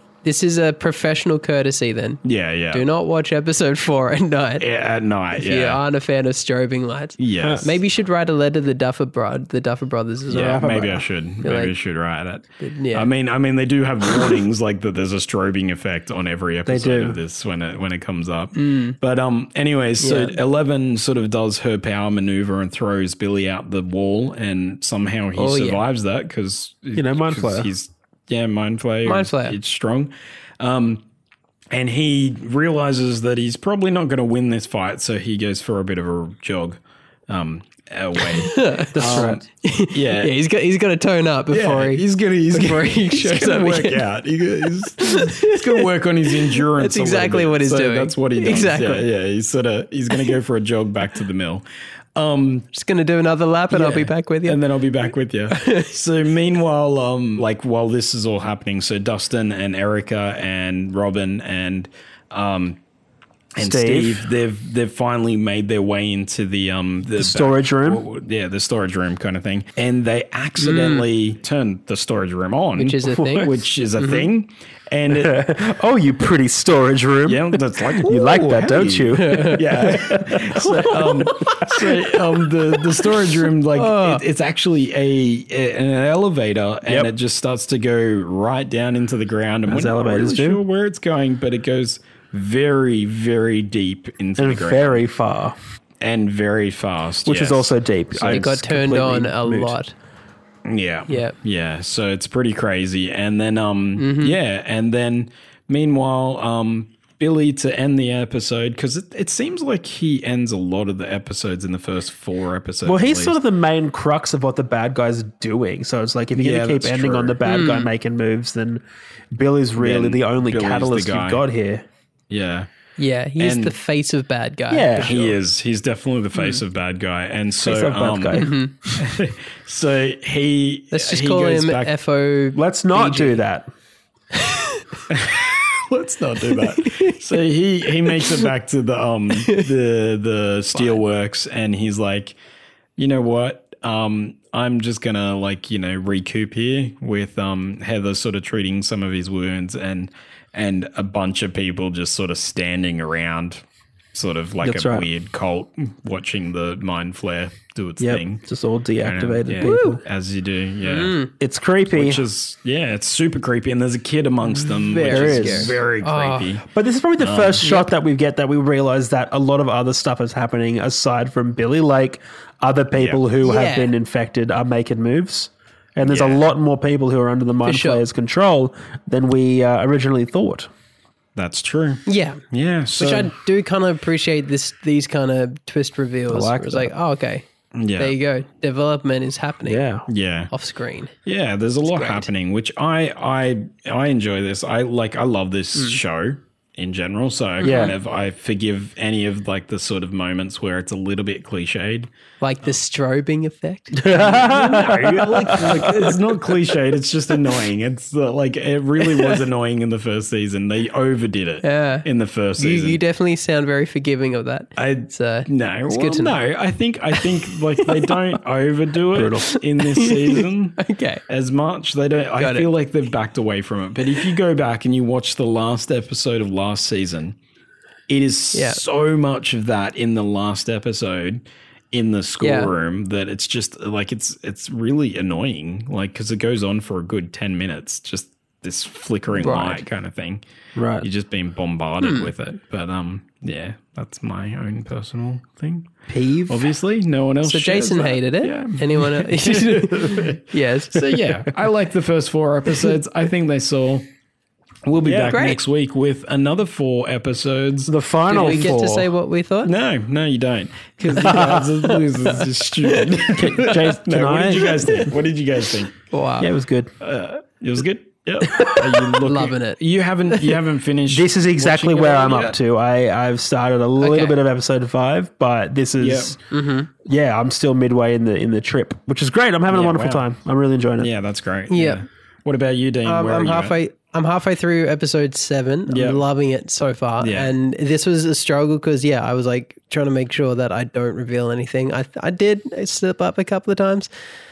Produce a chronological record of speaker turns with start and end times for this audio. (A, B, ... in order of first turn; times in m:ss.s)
0:00.2-0:04.6 A
0:02.2-0:02.9 B
0:04.6-0:05.8 B
0:05.4-0:10.7 A
0:07.2-0:07.8 B
0:07.4-0:07.7 C
0:10.3-0:31.0 B
0:10.3-0:11.0 C
0:11.4-0:11.7 A
0:12.6-0:13.1 A
0:16.6-0:17.2 C
0:18.6-0:19.0 A
0:20.0-0:20.4 A
0:25.4-0:25.8 A
0:27.0-0:27.7 C
0:29.0-0:29.6 A
0:31.7-0:40.3 B
0:38.2-0:44.0 A
0:38.9-0:39.4 C
0:41.5-0:51.6 B
0:44.6-0:49.0 A
0:52.2-0:52.7 B
0:52.7-0:54.6 A
0:53.7-1:02.8 B
0:55.5-0:55.9 A
1:03.6-1:15.6 B
1:03.6-1:04.2 C
1:07.2-1:08.0 C
1:10.6-1:11.0 A
1:12.8-1:14.3 A
1:15.1-1:21.7 C
1:17.2-1:35.0 B
1:19.2-1:21.9 A
1:23.7-1:24.2 A
1:26.8-1:27.1 C
1:29.7-1:30.6 C
1:34.4-1:35.6 C
1:36.0-1:38.5 B
1:37.2-1:39.7 C
1:38.3-1:39.9 A
1:40.6-1:53.4 B
1:41.1-1:41.3 A
1:44.0-1:44.4 A
1:52.8-1:58.8 C
1:56.3-1:57.4 B
1:57.4-1:57.9 A
1:59.3-2:01.8 C
1:59.8-2:01.4 B
2:02.3-2:02.7 B
2:03.0-2:05.2 A
2:03.4-2:03.7 B
2:04.7-2:05.3 C
2:05.0-2:11.9 B
2:07.6-2:08.5 C
2:08.3-2:08.9 A
2:10.9-2:13.4 A
2:12.5-2:13.7 C
2:14.3-2:15.0 A
2:15.1-2:22.4 B
2:16.6-2:17.2 A
2:18.1-2:18.4 A
2:23.0-2:33.6 B
2:34.1-2:38.4 B
2:34.6-2:35.0 C
2:38.0-2:40.0 C
2:39.0-2:41.2 B
2:39.6-2:40.0 A
2:40.8-2:41.3 A
2:41.4-2:42.2 C
2:41.9-2:46.6 B
2:44.5-2:46.6 A
2:45.0-2:45.8 C
2:46.7-3:00.7 C
2:47.2-2:47.7 B
2:47.6-2:47.9 A
2:53.0-2:53.2 B
2:53.4-2:53.9 A
2:56.0-2:56.4 B
2:57.6-2:58.0 A
3:01.4-3:03.3 B
3:02.0-3:02.4 A
3:02.9-3:07.4 A
3:06.3-3:06.9 C
3:07.8-3:08.1 B
3:08.0-3:09.8 A
3:09.6-3:10.0 C
3:10.1-3:10.5 B
3:10.5-3:11.1 A
3:11.2-3:22.1 B
3:11.9-3:12.3 A
3:17.6-3:17.9 A
3:17.6-3:17.9 C
3:22.4-3:26.2 A
3:24.0-3:26.2 C
3:24.3-3:33.0 B
3:29.0-3:29.4 A
3:31.6-3:32.0 A
3:32.6-3:36.4 A
3:34.8-3:47.4 B
3:37.1-3:38.2 A
3:39.1-3:39.5 C
3:39.4-3:41.2 A
3:42.4-3:42.7 A
3:48.1-4:00.4 B
3:48.5-3:48.8 A
3:52.4-3:52.7 A
3:59.3-3:59.8 A
4:00.7-4:01.1 C
4:01.0-4:05.9 B
4:02.0-4:02.3 A
4:06.1-4:06.7 C
4:06.5-4:14.1 B
4:07.4-4:11.1 A
4:14.8-4:18.6 B
4:15.0-4:15.6 A
4:17.9-4:19.1 C
4:18.3-4:19.7 A
4:19.6-4:25.9 B
4:21.1-4:23.7 A
4:21.2-4:21.6 C
4:23.3-4:25.1 C
4:26.1-4:26.5 A
4:26.4-4:26.9 C
4:27.0-4:32.6 B
4:28.5-4:29.0 C
4:29.2-4:29.8 A
4:31.1-4:36.4 C
4:34.0-4:34.4 A
4:36.0-4:36.4 B
4:36.5-4:36.9 A
4:37.0-4:41.1 C
4:39.7-4:40.2 B
4:41.0-4:43.8 B
4:41.7-4:42.0 A
4:43.0-4:54.1 A
4:45.9-4:46.2 B
4:47.2-4:47.5 B